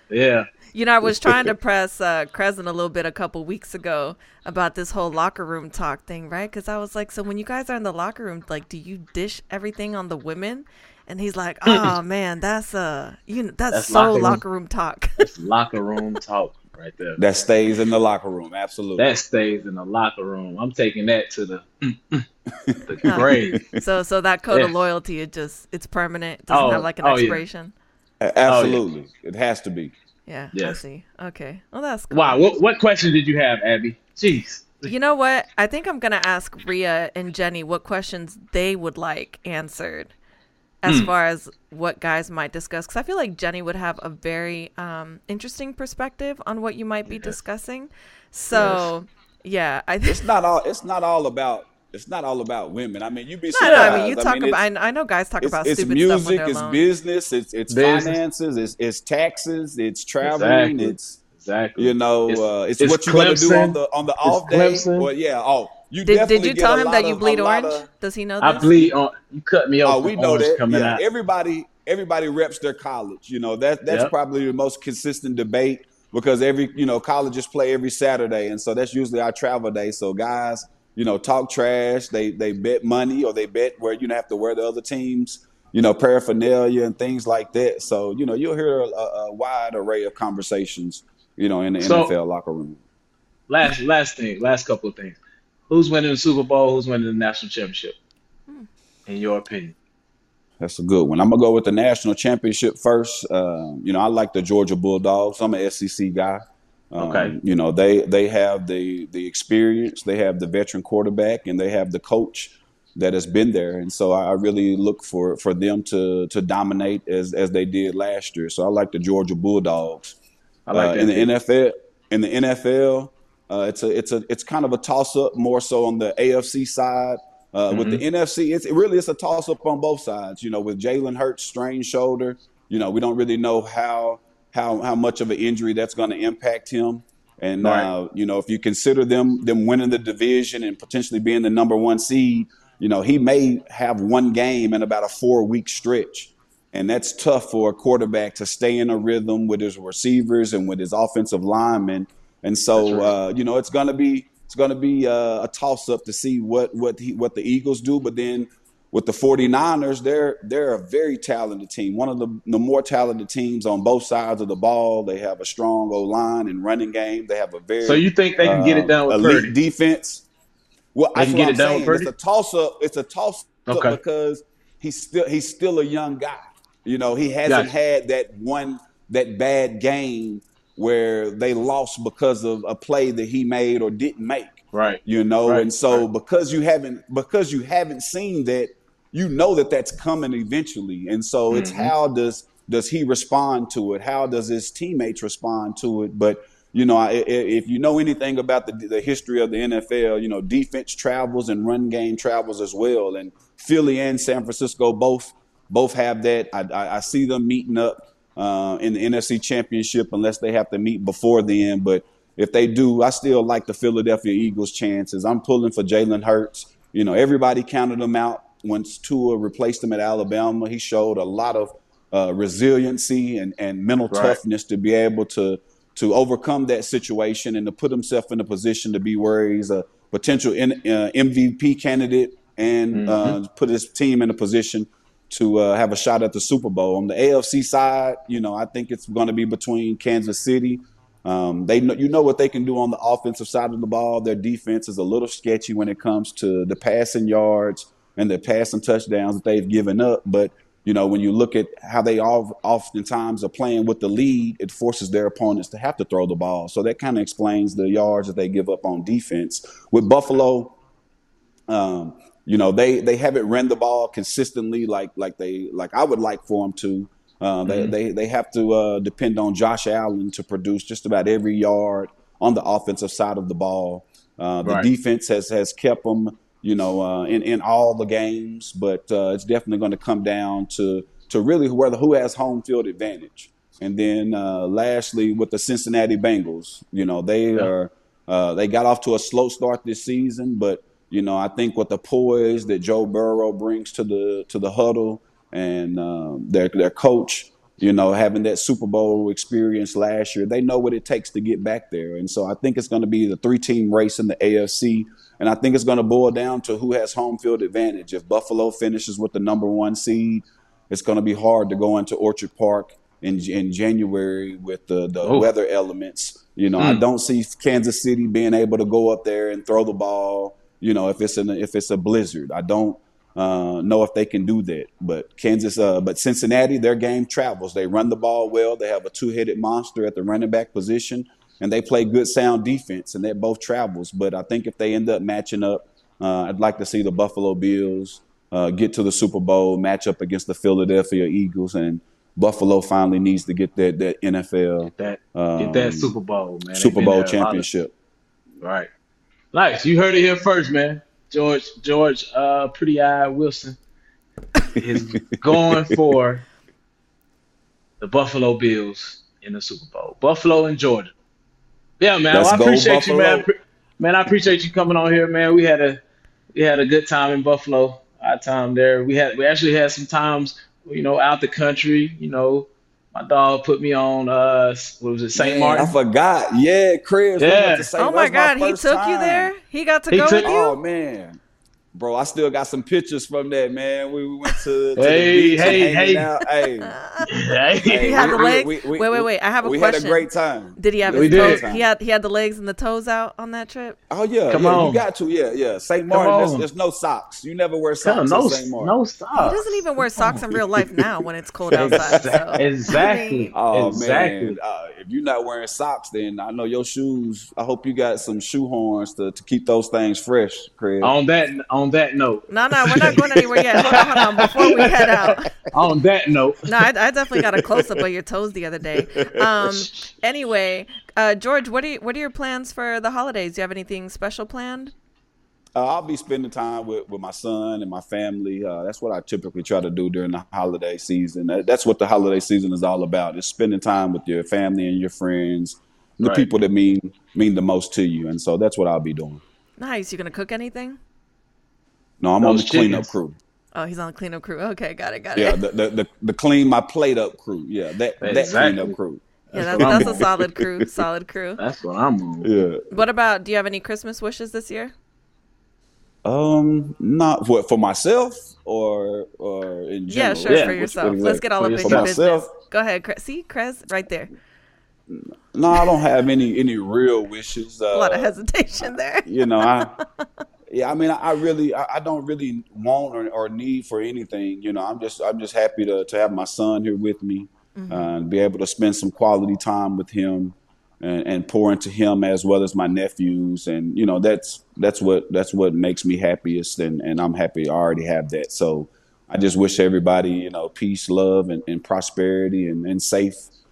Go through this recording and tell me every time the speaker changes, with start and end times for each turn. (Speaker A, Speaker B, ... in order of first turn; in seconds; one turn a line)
Speaker A: 0.1-0.5
Speaker B: 0.7-15.3
Speaker C: 1.0-1.5
Speaker A: 11.7-11.9
Speaker A: 13.7-14.4
Speaker A: 15.2-17.2
Speaker C: 17.2-19.1
Speaker A: 19.0-22.3
Speaker C: 22.6-23.8
Speaker A: 22.9-23.6
Speaker B: 23.1-27.7
Speaker A: 26.5-27.4
Speaker C: 28.2-29.9
Speaker A: 28.5-28.8
Speaker B: 30.3-32.5
Speaker A: 30.5-30.8
Speaker A: 32.1-34.9
Speaker B: 34.9-40.1
Speaker B: 40.8-50.2
Speaker A: 40.9-41.1
Speaker A: 47.1-47.4
Speaker A: 48.5-48.9
Speaker C: 50.0-54.6
Speaker B: 53.5-56.8
Speaker A: 53.6-54.0
Speaker C: 55.4-61.2
Speaker A: 57.7-58.2
Speaker A: 60.2-65.1
Speaker C: 61.8-67.9
Speaker B: 66.0-68.9
Speaker A: 68.4-71.0
Speaker C: 69.8-92.8
Speaker A: 91.8-92.1
Speaker A: 93.5-95.2
Speaker A: 95.7-98.0
Speaker A: 99.1-99.8
Speaker C: 100.6-106.4
Speaker C: 106.9-120.2
Speaker A: 107.0-107.3
Speaker A: 120.7-121.3
Speaker C: 120.7-170.2
Speaker A: 127.7-128.0
Speaker A: 137.6-137.9
Speaker A: 152.8-153.1
Speaker A: 167.8-169.5
Speaker C: 170.9-260.8
Speaker A: 171.2-172.1
Speaker A: 173.7-174.0
Speaker A: 184.7-186.1
Speaker A: 191.5-191.9
Speaker A: 224.1-224.4
Speaker A: 232.9-233.4
Speaker C: 261.7-346.1
Speaker A: 267.7-267.9
Speaker A: 274.6-274.9
Speaker A: 315.2-315.5
Speaker A: 345.0-347.7
Speaker C: 346.7-347.9
Speaker A: 348.6-348.9
Speaker A: 349.5-353.8
Speaker A: 354.8-356.4
Speaker C: 354.8-356.0
Speaker A: 358.0-361.1
Speaker A: 362.0-366.0
Speaker C: 362.3-363.5
Speaker A: 366.5-375.9
Speaker C: 375.4-379.5
Speaker A: 377.4-377.9
Speaker B: 378.0-380.8
Speaker A: 380.1-380.5
Speaker C: 380.4-381.4
Speaker C: 381.9-386.9
Speaker A: 385.0-386.3
Speaker B: 386.8-387.3
Speaker A: 387.3-388.2
Speaker C: 387.9-391.9
Speaker B: 387.9-394.0
Speaker A: 391.1-391.6
Speaker C: 394.1-398.9
Speaker A: 394.5-395.0
Speaker A: 396.1-396.7
Speaker A: 398.0-399.6
Speaker B: 399.4-403.5
Speaker C: 401.7-402.7
Speaker A: 401.8-404.6
Speaker C: 403.5-411.1
Speaker A: 411.0-413.2
Speaker B: 412.5-415.5
Speaker A: 413.8-416.7
Speaker B: 416.7-424.9
Speaker C: 417.4-418.0
Speaker C: 419.0-419.8
Speaker C: 425.8-439.4
Speaker A: 436.2-436.5
Speaker B: 439.8-441.0
Speaker C: 442.2-443.4
Speaker A: 442.4-443.1
Speaker B: 443.8-445.6
Speaker C: 445.4-451.0
Speaker A: 448.2-448.9
Speaker B: 449.5-451.6
Speaker A: 449.7-450.2
Speaker A: 451.6-452.5
Speaker C: 452.4-453.0
Speaker B: 452.9-454.9
Speaker C: 456.2-462.5
Speaker B: 460.1-464.3
Speaker A: 460.5-462.1
Speaker C: 465.1-469.9
Speaker B: 467.9-470.0
Speaker C: 470.7-493.5
Speaker B: 477.8-478.1